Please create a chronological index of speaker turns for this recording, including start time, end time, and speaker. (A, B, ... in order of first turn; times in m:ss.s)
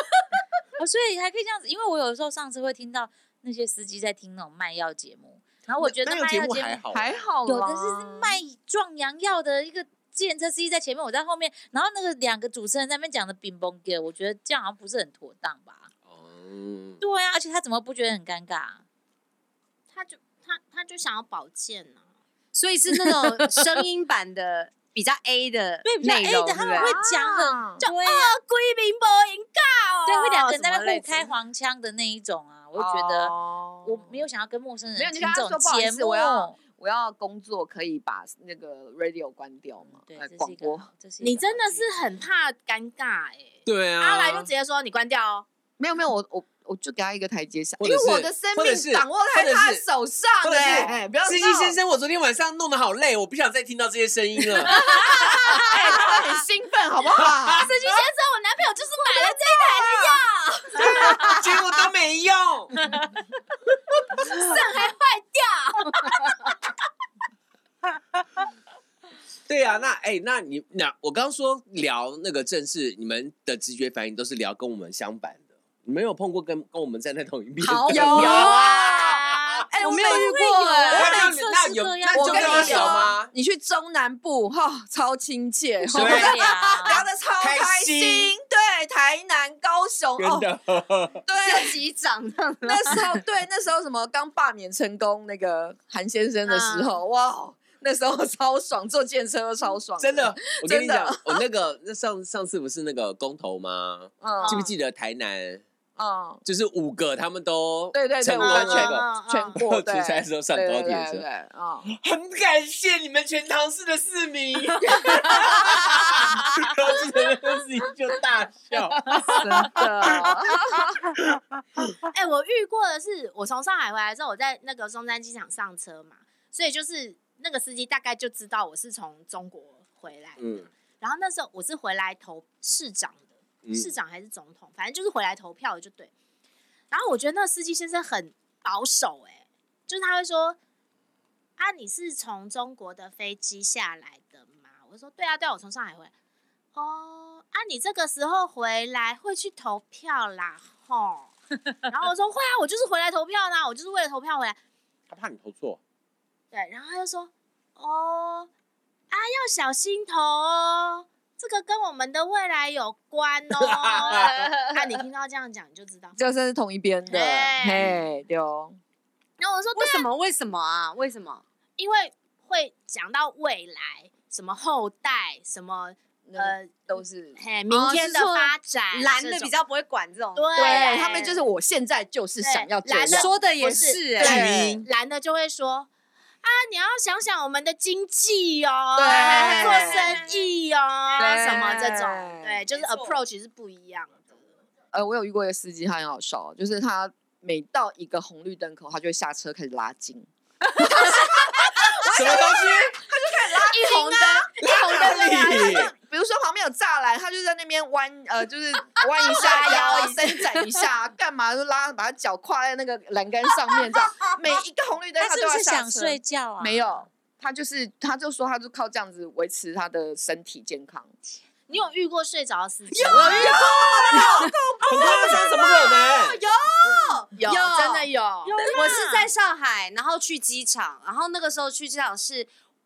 0:00.8-0:06.8 A
0:05.8-0:07.3 B
0:06.9-0:08.4 C
0:07.4-0:15.9 A
0:16.1-0:17.0 B
0:17.0-0:18.8 A
0:19.9-0:22.0 D
0:22.5-0:27.0 E
0:25.8-0:28.4 A
0:26.8-0:27.8 C
0:27.8-0:31.2 D
0:30.1-0:36.6 A
0:32.8-0:34.2 C
0:35.0-0:40.9 C
0:39.8-0:42.2 A
0:41.2-0:45.5 D
0:43.7-0:44.5 B
0:45.8-0:51.8 C
0:47.8-0:49.8 B
0:50.4-0:56.2 B
0:54.8-0:57.7 C
0:54.8-0:55.8 D
0:57.2-0:57.7 B
0:57.6-1:01.4 D
0:59.5-1:00.3 C
1:00.8-1:01.6 C
1:01.0-1:02.8 B
1:04.1-1:06.6 D
1:04.2-1:04.5 B
1:09.5-1:19.6 B
1:17.6-1:19.0 C
1:18.0-1:19.9 D
1:19.7-1:21.3 C
1:19.8-1:23.1 A
1:20.9-1:23.3 B
1:22.1-1:30.5 C
1:22.4-1:22.8 D
1:25.9-1:28.3 B
1:25.9-1:27.1 A
1:30.2-1:31.2 B
1:31.3-1:31.8 C
1:31.3-1:33.2 E
1:32.6-1:41.4 C
1:36.5-1:37.0 D
1:40.0-1:45.6 B
1:44.2-1:44.7 C
1:44.4-1:44.7 D
1:46.0-1:46.4 C
1:46.4-1:51.2 B
1:47.9-1:51.9 C
1:48.4-1:49.6 D
1:51.8-2:02.0 B
1:54.9-1:55.5 C
1:59.4-2:01.0 C
2:02.0-2:16.1 D
2:10.4-2:10.7 B
2:13.6-2:13.9 B
2:16.9-2:20.6 D
2:21.6-2:26.1 D
2:26.8-2:31.3 D
2:31.9-2:34.6 D
2:35.1-2:35.8 B
2:36.5-2:38.5 D
2:39.1-2:46.2 D
2:43.6-2:44.3 B
2:46.2-2:48.8 C
2:47.1-2:47.9 D
2:47.7-2:48.0 B
2:49.4-2:50.1 D
2:49.8-2:51.4 E
2:51.8-2:59.6 D
2:56.3-2:57.4 C
2:57.7-3:01.0 E
3:00.4-3:01.4 D
3:00.6-3:04.9 C
3:02.4-3:05.9 D
3:03.1-3:04.9 E
3:04.2-3:04.6 B
3:06.4-3:14.2 D
3:09.0-3:10.2 C
3:09.1-3:10.4 E
3:11.2-3:12.6 C
3:11.2-3:11.7 E
3:12.7-3:13.2 E
3:14.9-3:41.1 C
3:21.1-3:21.4 D
3:21.9-3:23.0 B
3:23.7-3:24.4 E
3:23.7-3:25.0 D
3:24.6-3:25.9 B
3:29.3-3:30.4 D
3:29.4-3:30.1 E
3:35.2-3:37.0 A
3:41.7-3:43.8 D
3:42.9-3:45.5 C
3:43.0-3:52.5 E
3:43.1-3:46.4 B
3:47.4-3:49.2 D